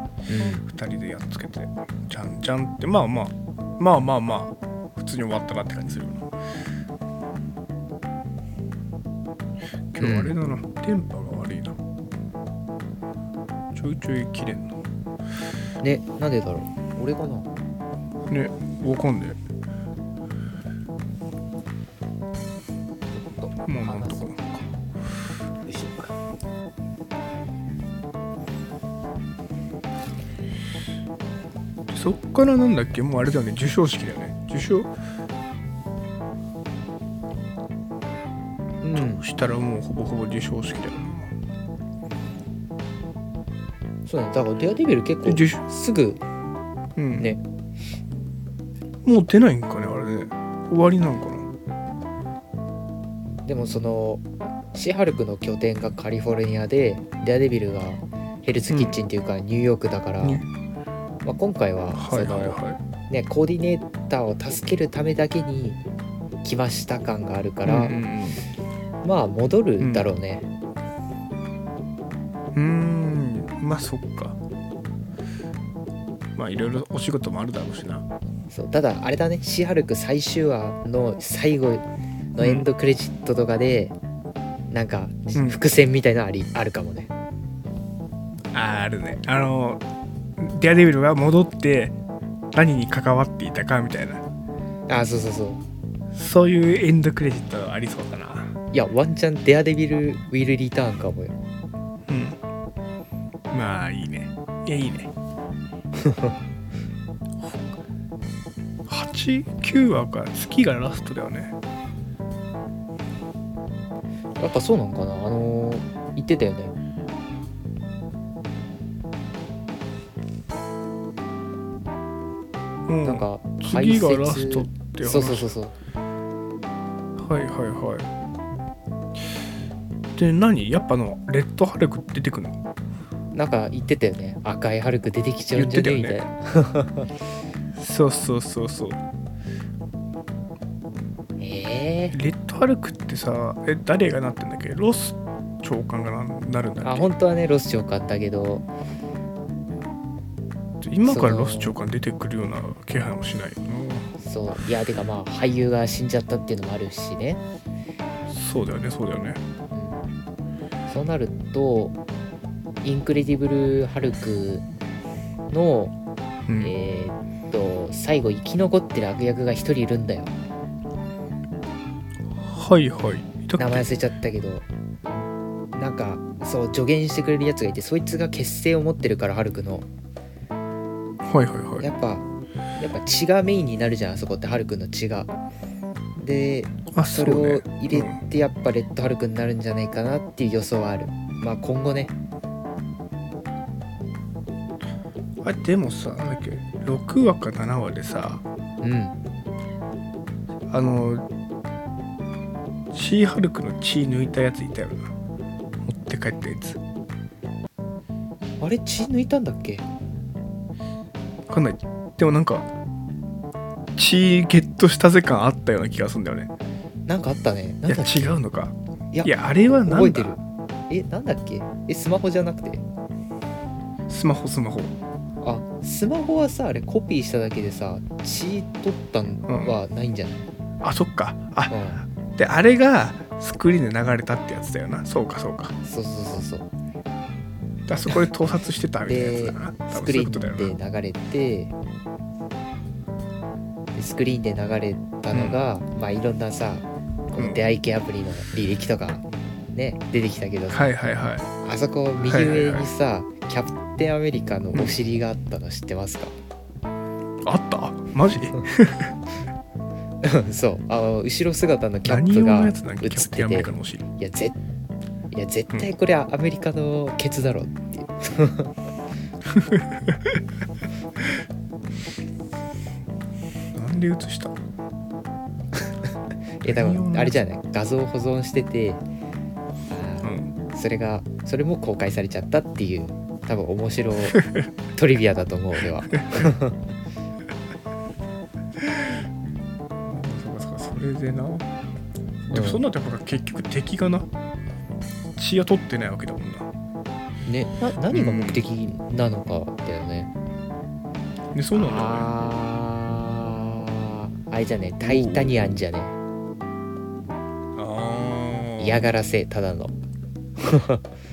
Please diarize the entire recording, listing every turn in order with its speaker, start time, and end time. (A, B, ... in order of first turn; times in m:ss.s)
0:00.3-0:00.6 A
0:00.6-0:06.3 B
0:09.9-0:11.8 B
0:10.0-0:10.3 A
0:13.7-0:14.8 B
0:15.8-0:17.5 A
0:18.3-0:19.4 B
0:23.1-0:24.3 A
0:23.6-0:24.6 B
0:25.7-0:26.0 A
0:31.9-0:34.9 B
0:38.8-0:39.2 A
0:38.9-0:41.3 B
0:44.0-0:46.2 A
0:45.2-0:45.6 B
0:47.0-0:47.3 B
0:49.0-0:51.4 B
0:53.4-1:00.4 A
0:58.7-0:59.0 B
1:00.2-1:00.5 B
1:01.2-1:02.6 A
1:01.9-1:02.8 B
1:03.1-1:05.8 A
1:06.4-1:07.9 A
1:07.6-1:08.4 B
1:09.0-1:10.5 A
1:09.8-1:10.1 B
1:12.5-1:14.4 B
1:16.4-1:18.0 B
1:18.5-1:24.0 A
1:22.4-1:22.7 B
1:24.7-1:27.1 A
1:25.3-1:25.6 B
1:28.5-1:29.8 B
1:30.4-1:31.9 B
1:32.5-1:34.2 B
1:34.9-1:35.6 A
1:36.1-1:38.5 B
1:38.7-1:41.3 A
1:42.1-1:42.4 B
1:43.5-1:45.1 B
1:46.0-1:46.4 A
1:48.8-1:51.6 B
1:54.4-1:56.7 A
2:02.9-2:05.5 B
2:03.0-2:05.7 A
2:07.2-2:08.0 B
2:10.2-2:12.6 B
2:13.3-2:17.1 A
2:15.5-2:16.2 B
2:17.8-2:19.0 B
2:21.4-2:22.2 A
2:22.1-2:27.1 B
2:26.8-2:28.7 A
2:30.8-2:34.1 B
2:31.1-2:31.7 A
2:34.2-2:37.4 A
2:38.3-2:39.4 B
2:39.7-2:40.0 A
2:40.9-2:42.0 A
2:42.8-2:44.6 A
2:45.5-2:45.9 A
2:46.5-2:46.7 B
2:46.6-2:50.3 A
2:52.4-2:53.9 B
2:53.6-2:59.9 A
3:01.2-3:01.9 B
3:01.8-3:02.2 A
3:02.8-3:05.3 A
3:06.2-3:12.1 A
3:06.9-3:08.2 B
3:15.4-3:18.4 B
3:18.8-3:19.2 A
3:20.7-3:21.3 B
3:22.9-3:25.1 B
3:25.8-3:26.8 B
3:28.6-3:29.8 A
3:31.5-3:32.7 B
3:34.0-3:36.5 B
3:37.1-3:38.4 A
3:37.9-3:40.4 B
3:39.1-3:42.8 A
3:44.1-3:44.9 B
3:45.4-3:50.4 A
3:49.5-3:49.8 B
3:50.8-3:51.8 B
3:51.7-3:52.0 A
3:52.3-3:55.7 B
3:55.8-3:56.7 A
3:57.9-4:00.7 B
3:59.1-4:01.7 A
4:03.9-4:10.9 A
4:05.3-4:05.6 B
4:10.7-4:11.5 B
4:11.6-4:16.3 A
4:12.2-4:12.8 B
4:17.4-4:19.1 B
4:20.2-4:24.6 A
4:22.0-4:24.0 B
4:25.3-4:28.7 A
4:29.6-4:30.2 B
4:33.7-4:34.5 B
4:36.6-4:39.0 A
4:36.6-4:37.4 B
4:39.9-4:44.4 A
4:40.2-4:40.5 B
4:44.9-4:46.8 A
4:50.0-4:51.7 B
4:52.5-4:54.3 B
4:52.5-4:52.8 A
4:55.4-4:56.7 B
4:57.5-5:00.3 A
4:58.1-4:58.6 B
5:01.5-5:02.3 B
5:01.7-5:06.2 A
5:05.0-5:05.8 B
5:07.7-5:09.1 B
5:08.8-5:09.9 A
5:10.6-5:11.0 A